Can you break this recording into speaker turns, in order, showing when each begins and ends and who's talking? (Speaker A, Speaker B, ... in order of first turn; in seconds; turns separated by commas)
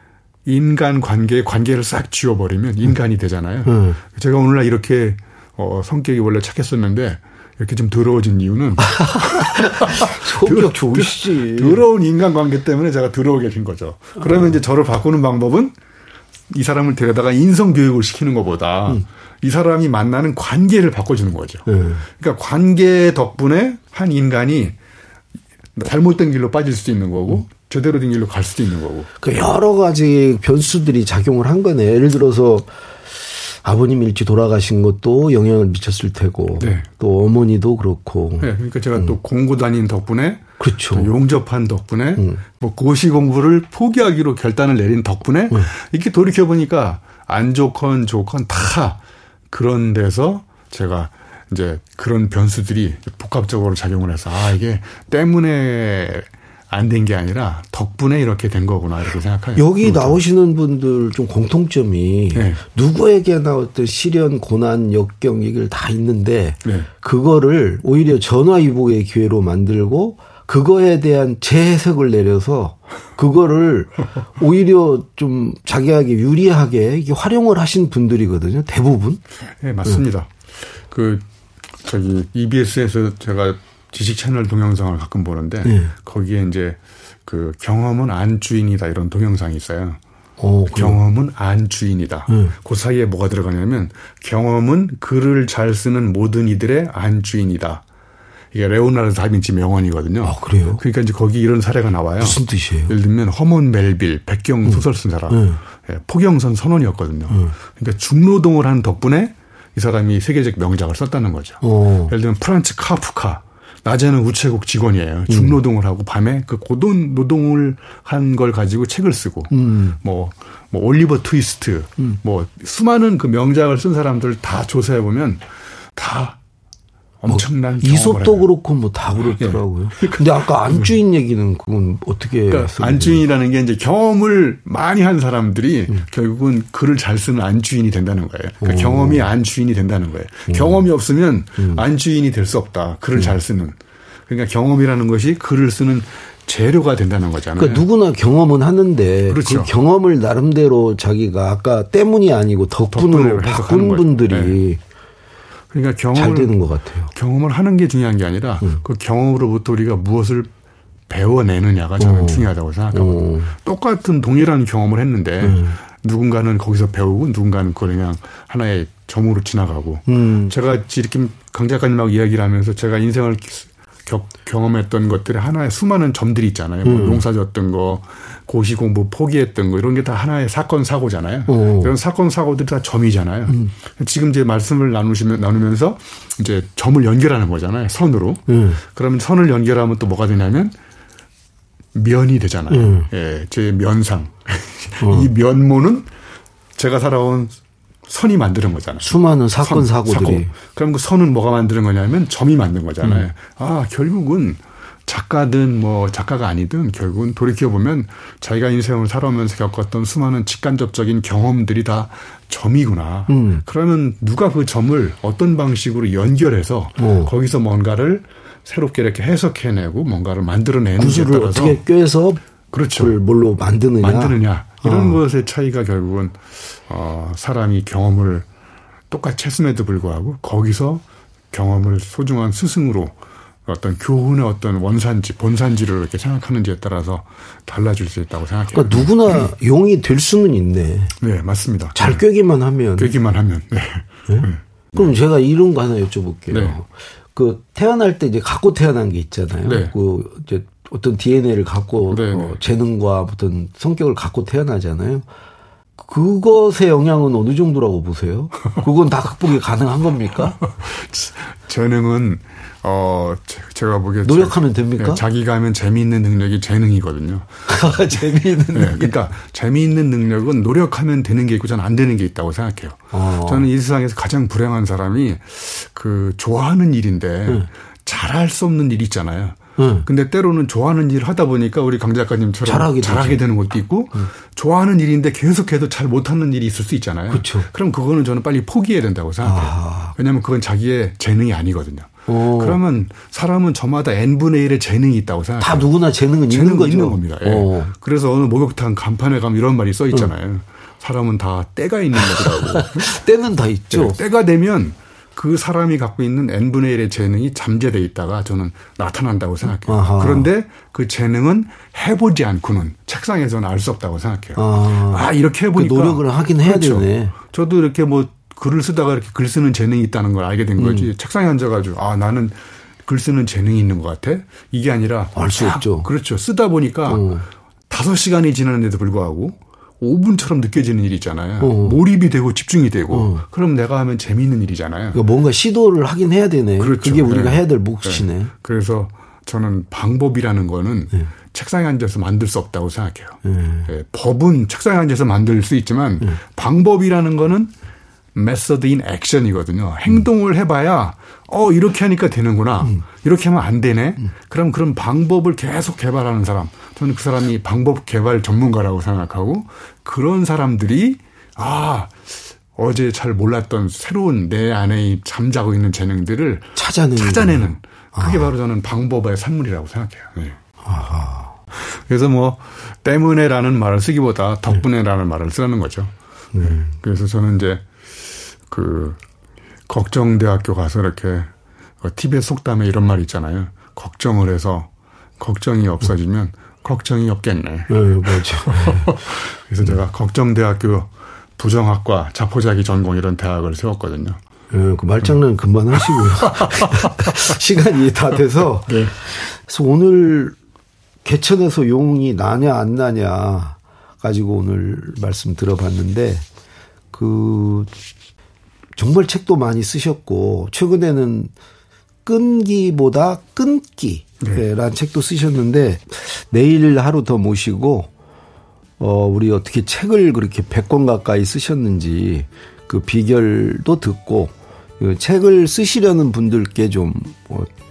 Speaker A: 0.5-15.8, Speaker B: 3.7-4.0, Speaker B: 8.9-11.8, Speaker A: 16.5-24.8, Speaker B: 21.7-22.0, Speaker A: 25.8-29.1, Speaker B: 29.2-39.1, Speaker A: 36.6-36.9, Speaker A: 38.4-49.0, Speaker B: 40.6-41.1, Speaker A: 49.5-60.2, Speaker B: 59.6-79.2, Speaker A: 62.3-62.6, Speaker A: 79.6-80.3, Speaker A: 80.9-81.3, Speaker A: 81.8-90.0, Speaker B: 85.7-85.9, Speaker B: 90.4-91.0, Speaker A: 90.7-97.8, Speaker B: 92.3-92.5, Speaker A: 98.5-126.4, Speaker B: 100.2-100.8, Speaker B: 102.2-102.9, Speaker B: 105.3-105.6, Speaker B: 111.6-112.1, Speaker B: 115.3-115.6, Speaker B: 119.5-120.0, Speaker A: 127.2-128.5, Speaker B: 127.3-133.2, Speaker A: 129.4-130.9, Speaker A: 132.5-147.9, Speaker B: 138.6-139.3, Speaker B: 140.5-140.8, Speaker B: 141.6-141.8, Speaker B: 147.6-154.8, Speaker A: 149.3-149.7, Speaker A: 152.9-154.6, Speaker A: 155.7-156.6, Speaker B: 156.2-157.1, Speaker A: 157.1-160.5, Speaker A: 161.1-190.8, Speaker B: 162.0-163.6, Speaker B: 165.4-165.8, Speaker B: 170.1-170.5, Speaker B: 176.8-177.2, Speaker B: 181.5-181.9, Speaker B: 188.5-188.8, Speaker A: 191.9-196.1, Speaker B: 192.7-193.1, Speaker B: 195.0-195.3, Speaker A: 196.8-199.1, Speaker B: 199.0-200.5, Speaker A: 199.6-221.8, Speaker B: 213.3-213.6, Speaker B: 217.0-217.3, Speaker B: 221.0-222.4, Speaker A: 222.7-223.2, Speaker B: 223.0-225.2, Speaker A: 224.0-228.5, Speaker A: 229.1-239.1, Speaker B: 238.7-241.2, Speaker A: 241.2-242.2, Speaker B: 241.9-243.1, Speaker A: 243.0-245.1, Speaker B: 244.3-255.2, Speaker A: 246.5-246.8, Speaker A: 249.7-249.9, Speaker A: 252.1-252.6, Speaker B: 256.0-260.6, Speaker A: 260.6-267.7, Speaker B: 264.2-265.2, Speaker B: 267.7-269.1, Speaker A: 268.7-295.9, Speaker B: 273.1-273.7, Speaker B: 279.8-280.1, Speaker B: 282.7-283.4, Speaker B: 287.3-287.7, Speaker B: 289.4-290.1, Speaker B: 292.3-292.8, Speaker B: 295.6-297.9, Speaker A: 296.5-303.1, Speaker B: 302.3-304.2, Speaker A: 303.9-327.3, Speaker B: 309.9-310.5, Speaker B: 314.6-317.4, Speaker B: 320.8-321.1, Speaker B: 325.4-326.1, Speaker B: 327.1-327.4, Speaker A: 327.9-335.2, Speaker B: 331.6-332.0, Speaker B: 333.1-333.4, Speaker B: 335.1-338.5, Speaker A: 336.8-347.7, Speaker B: 343.4-343.9, Speaker A: 348.4-370.6, Speaker B: 366.8-368.5, Speaker B: 370.8-371.6, Speaker A: 371.7-377.9, Speaker B: 376.5-376.9, Speaker A: 378.7-379.2, Speaker A: 379.9-394.4, Speaker B: 387.9-389.2, Speaker B: 394.7-400.6, Speaker A: 396.1-397.3, Speaker A: 398.9-399.1, Speaker B: 401.2-406.4, Speaker B: 407.1-407.9, Speaker B: 409.0-411.5, Speaker B: 412.2-418.1, Speaker B: 419.0-427.7